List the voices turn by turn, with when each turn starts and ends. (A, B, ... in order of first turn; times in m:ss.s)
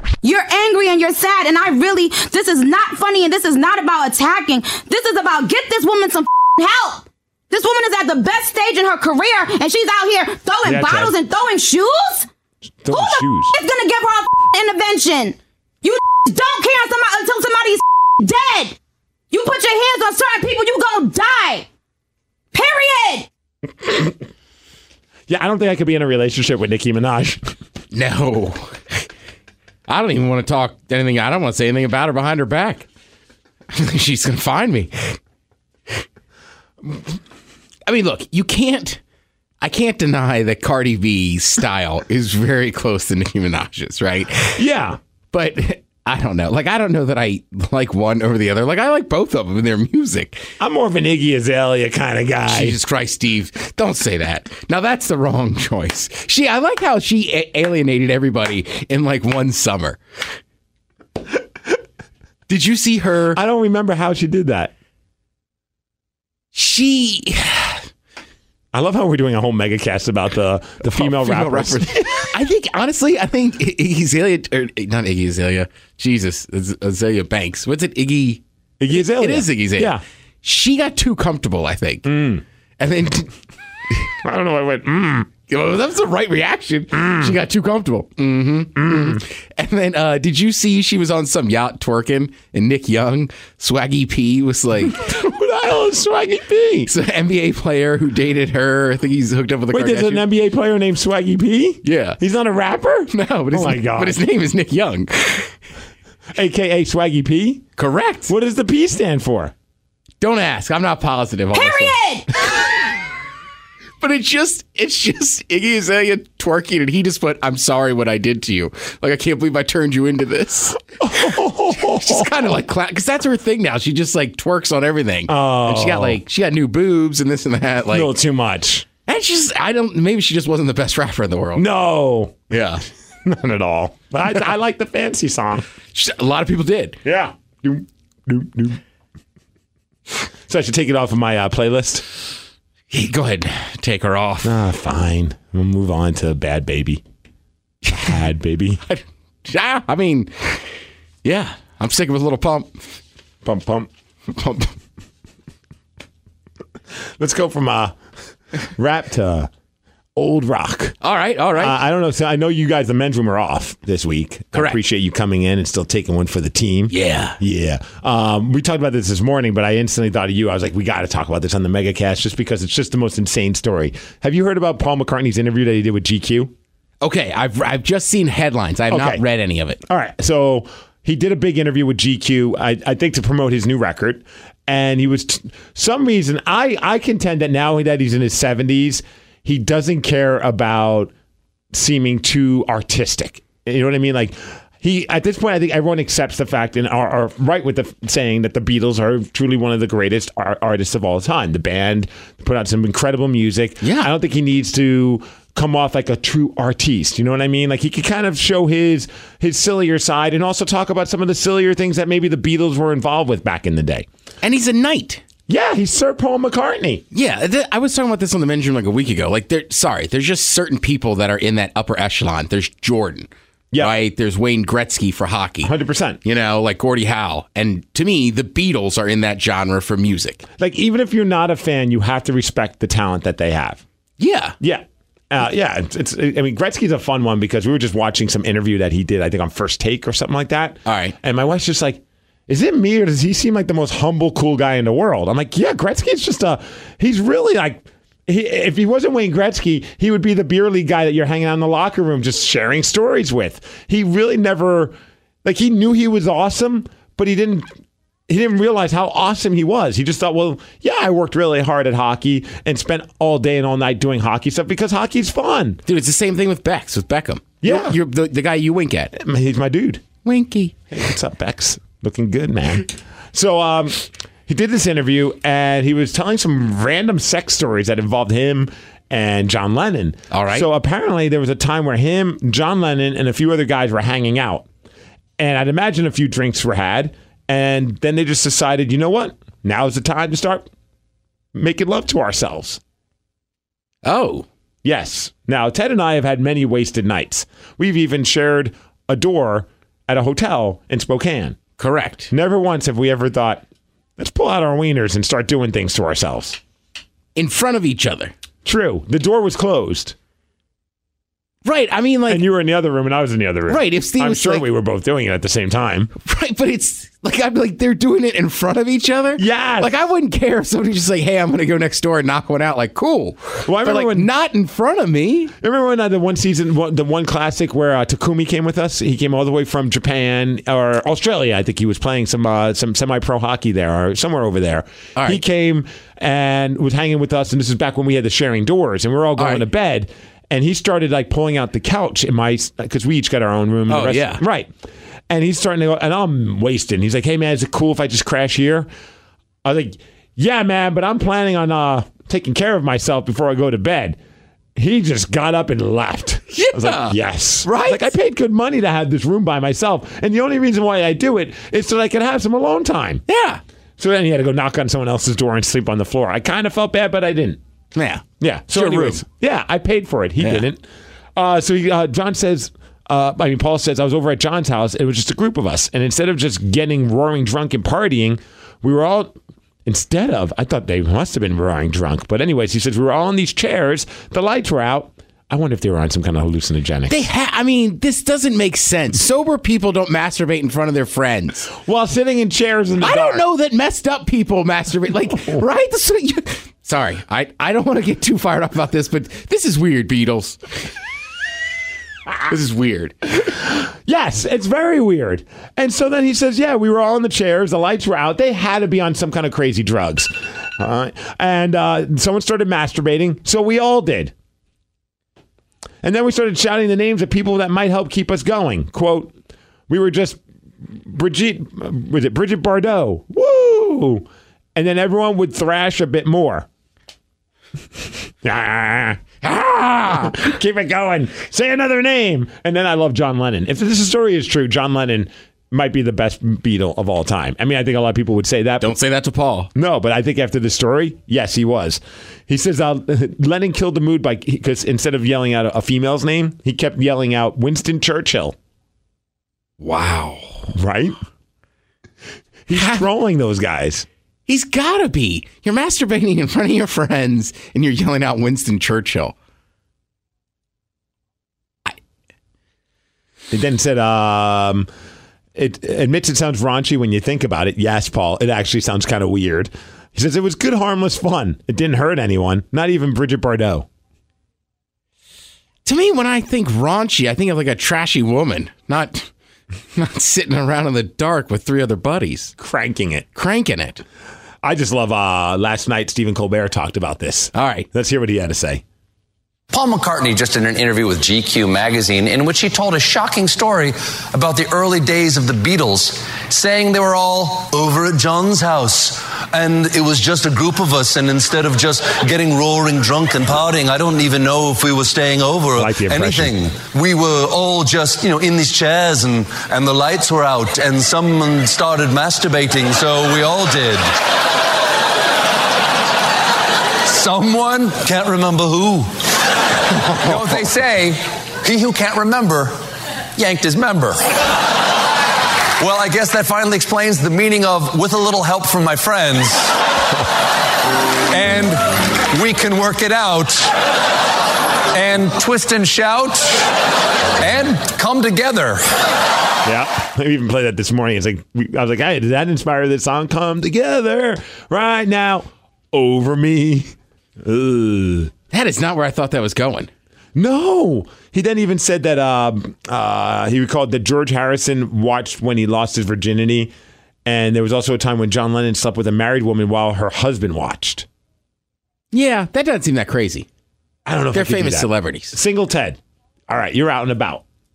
0:00.2-0:12.3 A
0:10.6-0:11.1 B
0:12.8-0:13.5 B
0:12.9-0:18.8 A
0:19.3-0:21.7 A
0:22.5-0:23.3 A
0:23.8-0:24.1 B
0:25.3-0:27.5 B
0:27.9-0:29.0 C
0:29.9-0:32.9 C
0:33.7-0:35.2 C
0:37.8-0:39.0 C
0:39.6-0:44.6 C
0:44.6-0:45.0 B
0:45.3-0:50.4 C
0:50.6-0:52.8 B
0:52.5-1:00.0 C
1:02.5-1:03.4 C
1:03.3-1:04.7 B
1:06.5-1:07.8 C
1:08.7-1:12.3 B
1:10.9-1:22.1 C
1:18.8-1:20.0 B
1:22.0-1:22.4 B
1:22.8-1:23.3 C
1:24.2-1:25.3 B
1:25.5-1:35.0 C
1:26.9-1:27.3 B
1:28.8-1:29.2 B
1:34.9-1:36.9 B
1:36.9-1:40.2 C
1:39.7-1:44.2 B
1:41.8-1:42.2 C
1:43.1-1:45.5 C
1:46.3-1:47.6 B
1:47.8-1:48.3 C
1:48.3-1:49.5 B
1:50.2-1:52.0 C
1:51.5-1:52.3 A
1:54.0-2:00.8 C
2:01.0-2:02.5 B
2:01.8-2:08.1 C
2:05.3-2:06.2 B
2:07.9-2:08.8 B
2:09.0-2:11.6 C
2:11.6-2:12.4 B
2:12.5-2:12.8 C
2:13.2-2:15.6 B
2:15.9-2:17.0 C
2:17.0-2:18.8 B
2:20.5-2:22.0 B
2:22.9-2:24.6 C
2:24.4-2:27.0 B
2:27.9-2:28.8 B
2:28.9-2:32.7 C
2:33.4-2:33.9 B
2:34.3-2:34.7 C
2:37.2-2:38.0 B
2:38.7-2:39.5 B
2:40.2-2:40.9 B
2:41.0-2:41.8 C
2:41.6-2:56.5 B
2:46.9-2:47.4 C
2:57.0-2:59.8 C
2:58.9-2:59.2 B
2:59.8-3:11.1 B
3:11.7-3:34.0 B
3:23.8-3:24.1 C
3:34.4-3:35.2 C
3:35.5-3:37.0 B
3:37.1-3:45.7 C
3:45.6-3:46.2 B
3:46.2-3:50.4 C
3:50.6-3:53.8 B
3:54.2-3:54.6 C
3:54.6-4:17.7 B
4:00.8-4:01.2 C
4:18.3-4:25.8 B
4:25.9-4:29.1 C
4:27.6-4:28.0 B
4:29.1-4:30.0 B
4:30.2-4:30.8 C
4:30.9-4:44.6 B
4:40.3-4:40.7 C
4:45.4-4:50.7 B
4:51.5-4:52.8 B
4:54.0-4:54.4 C
4:54.8-5:01.6 B
5:01.8-5:02.3 C
5:02.3-5:03.6 B
5:04.2-5:06.6 B
5:07.4-5:08.3 C
5:08.6-5:10.1 B
5:11.6-5:12.5 C
5:12.3-5:16.1 B
5:13.7-5:14.6 C
5:16.2-5:25.5 C
5:19.4-5:19.9 B
5:23.6-5:24.3 B
5:25.6-5:44.7 B
5:35.2-5:35.4 C
5:39.4-5:39.6 C
5:43.9-5:44.4 C
5:45.3-5:48.9 B
5:49.6-5:54.2 B
5:54.8-6:03.2 B
5:56.5-5:58.1 C
6:03.3-6:03.6 C
6:04.0-6:07.6 B
6:07.9-6:09.2 C
6:08.4-6:10.8 B
6:10.4-6:10.6 C
6:11.4-6:19.3 B
6:19.8-6:27.2 B
6:27.1-6:31.7 C
6:31.7-6:33.4 B
6:33.0-6:40.6 C
6:42.5-6:43.1 C
6:43.4-6:54.3 B
6:56.0-6:59.3 B
6:59.9-7:06.7 B
7:08.4-7:18.9 B
7:18.8-7:19.7 C
7:19.7-7:28.5 B
7:29.8-7:30.7 C
7:30.7-7:31.2 B
7:32.7-7:34.0 B
7:34.5-7:39.3 C
7:43.5-7:44.9 B
7:45.6-7:53.8 B
7:55.8-7:59.3 C
7:59.9-8:02.5 C
8:02.6-8:03.2 B
8:03.3-8:04.0 C
8:04.6-8:08.8 B
8:07.5-8:07.9 C
8:09.7-8:34.0 D
8:25.7-8:26.5 B
8:37.0-8:39.3 D
8:40.1-8:42.8 D
8:43.3-8:44.4 D
8:45.8-8:49.8 D
8:51.3-8:53.7 D
8:54.9-8:56.7 D
8:57.4-8:59.1 D
8:59.6-9:08.3 B
9:08.5-9:09.9 C
9:10.3-9:16.7 B
9:17.2-9:21.0 B
9:22.1-9:23.5 C
9:24.0-9:26.0 B
9:24.3-9:25.3 C
9:26.5-9:27.4 B